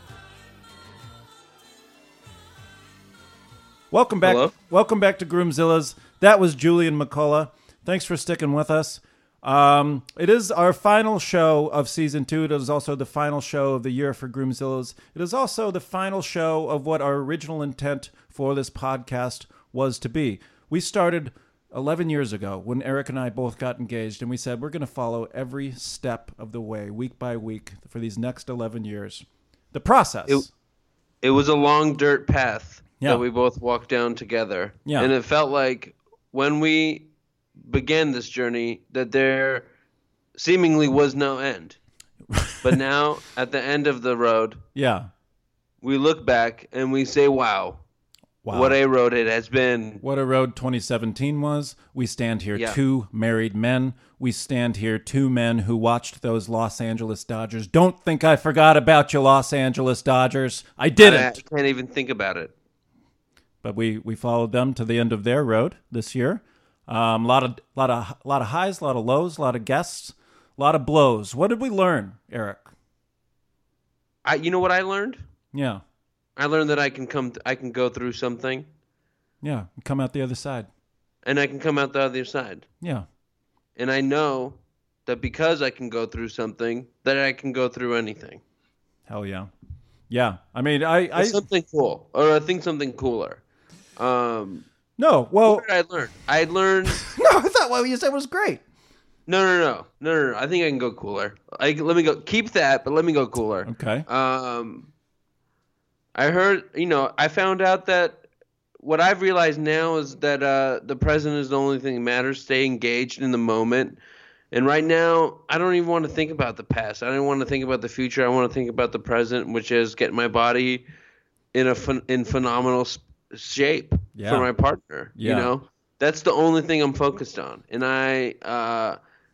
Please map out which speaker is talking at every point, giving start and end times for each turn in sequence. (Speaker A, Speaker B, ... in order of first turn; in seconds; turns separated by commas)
Speaker A: 3.9-30.5, Speaker B: 4.2-4.5, Speaker B: 31.2-39.7, Speaker A: 34.9-35.1, Speaker B: 40.4-41.8, Speaker A: 42.3-42.8, Speaker B: 42.6-44.6, Speaker A: 44.7-45.1, Speaker B: 45.8-47.8, Speaker A: 48.4-48.8, Speaker B: 48.5-50.0, Speaker A: 50.0-61.4, Speaker B: 61.0-62.5, Speaker A: 63.6-72.7, Speaker B: 74.2-75.2, Speaker A: 75.5-75.8, Speaker B: 76.4-78.7, Speaker A: 79.4-80.7, Speaker B: 81.2-82.7, Speaker A: 82.8-83.0, Speaker B: 83.8-88.4, Speaker A: 89.1-89.5, Speaker A: 90.1-91.4, Speaker B: 91.1-93.4, Speaker B: 94.0-94.7, Speaker A: 95.0-95.7, Speaker B: 95.4-97.0, Speaker A: 96.9-98.6, Speaker B: 99.3-104.9, Speaker A: 103.6-104.0, Speaker B: 106.1-108.2, Speaker B: 108.8-114.0, Speaker B: 114.5-120.8, Speaker B: 121.5-129.0, Speaker A: 124.1-124.5, Speaker A: 125.2-125.5